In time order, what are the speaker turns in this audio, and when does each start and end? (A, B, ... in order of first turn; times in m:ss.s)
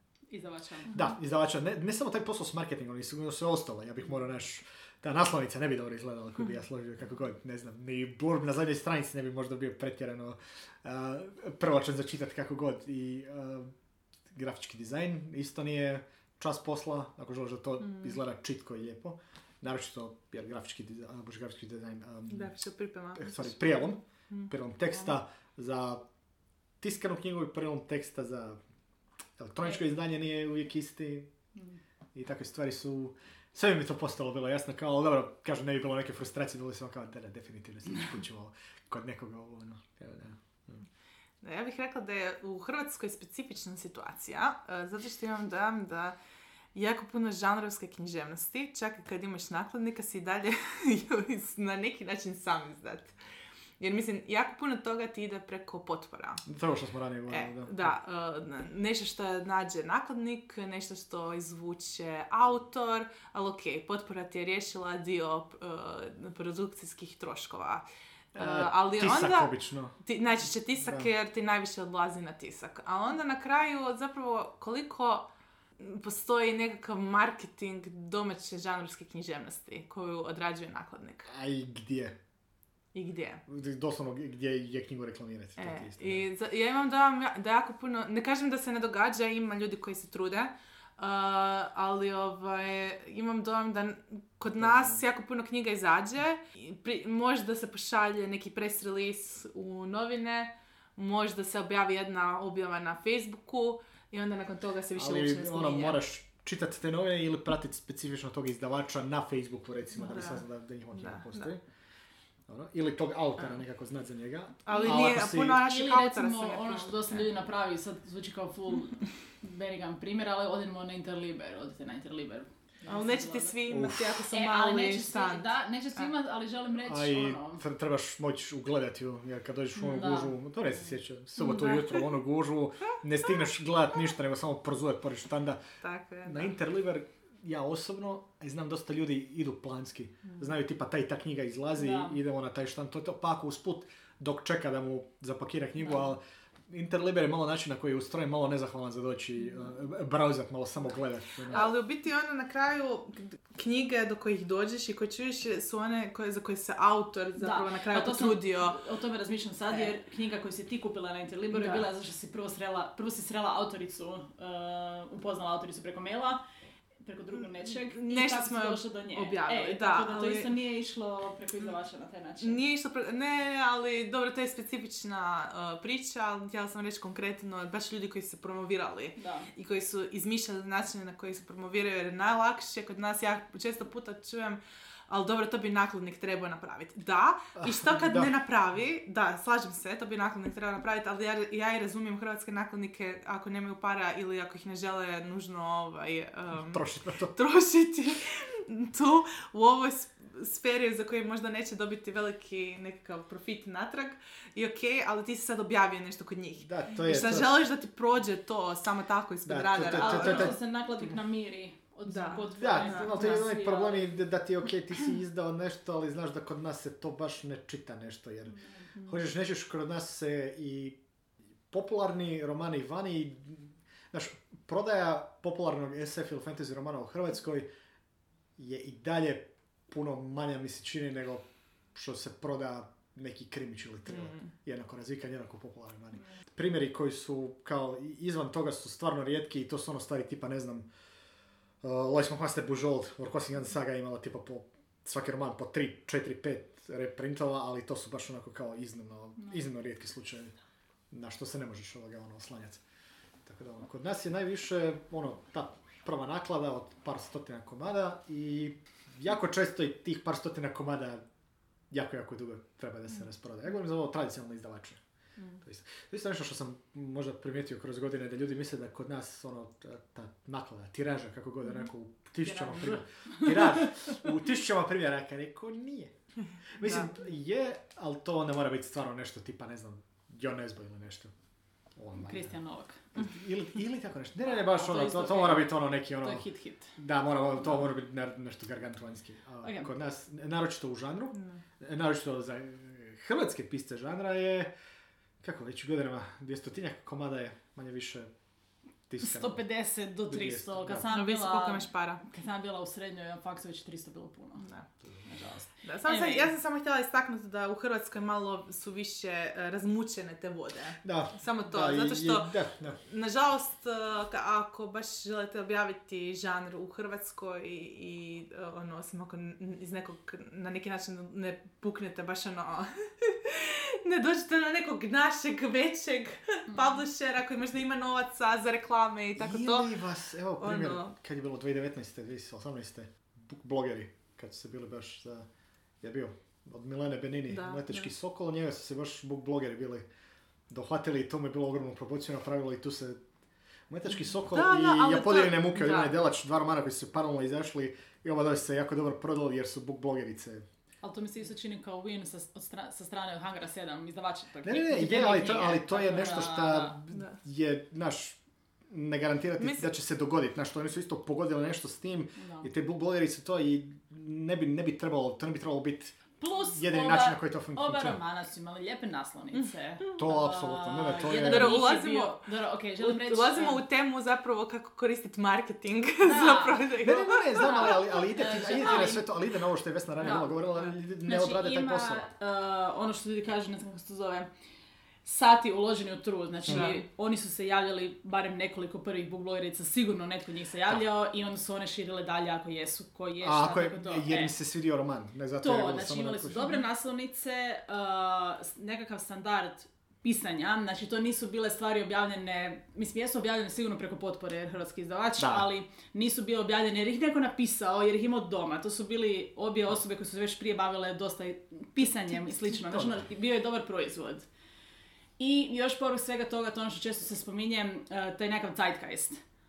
0:00.3-0:01.0 A
0:00.9-0:13.7 B
0:14.3-0:22.5 B
0:17.8-0:18.2 C
0:22.3-0:23.6 C
0:23.2-0:26.0 B
0:26.8-0:28.6 B
0:29.4-0:31.3 B
0:32.1-0:40.8 B
0:41.4-0:46.2 C
0:46.7-0:53.1 C
0:53.8-0:56.4 C
0:56.5-0:58.0 B
0:57.3-1:07.8 C
1:08.3-1:10.0 B
1:08.4-1:09.5 C
1:10.0-1:15.3 C
1:10.8-1:11.1 B
1:15.8-1:21.3 C
1:21.3-1:22.2 B
1:22.9-1:23.4 C
1:23.5-1:26.2 B
1:25.6-1:46.0 C
1:34.6-1:35.0 B
1:44.9-1:51.6 B
1:50.0-1:50.4 C
1:50.9-1:51.5 C
1:52.5-1:55.6 B
1:54.6-1:57.2 C
1:54.7-2:03.6 A
2:02.9-2:06.1 C
2:03.7-2:04.2 B
2:04.3-2:07.6 A
2:06.8-2:15.6 B
2:09.8-2:10.3 A
2:11.4-2:12.1 C
2:15.8-2:16.5 C
2:16.2-2:31.7 B
2:21.8-2:22.2 A
2:31.5-2:38.8 C
2:37.4-2:46.4 A
2:41.5-2:41.8 C
2:47.0-2:52.6 A
2:47.3-2:50.5 C
2:52.4-3:16.8 C
2:59.2-2:59.5 A
3:07.6-3:08.3 B
3:16.5-3:17.3 B
3:17.3-3:30.6 C
3:26.6-3:27.6 B
3:29.4-3:30.6 B
3:29.9-3:34.2 A
3:32.1-3:33.4 C
3:32.6-3:41.0 B
3:41.7-3:47.7 B
3:48.6-4:00.9 B
3:54.1-3:54.5 C
4:01.8-4:10.5 B
4:11.1-4:12.8 B
4:13.4-4:21.2 B
4:21.9-4:25.0 B
4:25.6-4:36.1 B
4:32.4-4:34.1 A
4:36.8-4:41.3 B
4:36.8-4:37.1 C
4:42.0-4:42.5 B
4:42.1-4:43.1 A
4:43.1-4:46.4 B
4:44.5-4:47.0 A
4:47.0-4:54.7 B
4:49.6-4:49.9 A
4:51.3-4:51.6 C
4:55.4-4:58.3 B
4:59.1-4:59.6 B
4:59.2-5:04.7 A
5:00.3-5:01.0 B
5:01.1-5:02.2 C
5:04.6-5:04.9 C
5:05.2-5:06.5 A
5:05.8-5:29.9 C
5:11.0-5:13.0 B
5:26.7-5:27.0 A
5:29.4-5:35.5 B
5:30.6-5:31.1 C
5:36.0-5:40.0 B
5:37.5-5:38.1 C
5:40.7-5:43.2 B
5:43.9-5:50.6 B
5:44.5-5:46.1 C
5:51.0-5:57.0 A
5:54.6-6:06.2 B
5:57.1-5:57.4 C
5:59.6-5:59.9 C
6:02.4-6:02.7 A
6:06.4-6:13.8 A
6:06.7-6:08.2 B
6:10.2-6:11.8 B
6:11.3-6:12.4 C
6:13.0-6:18.0 C
6:16.2-6:16.9 A
6:17.0-6:22.3 B
6:17.6-6:19.3 A
6:18.8-6:19.1 C
6:20.2-6:20.5 A
6:21.2-6:24.5 A
6:25.2-6:34.5 A
6:26.7-6:27.0 C
6:33.4-6:36.7 B
6:35.6-6:54.5 A
6:45.4-6:45.7 B
6:52.8-6:53.1 B
6:55.4-6:59.4 A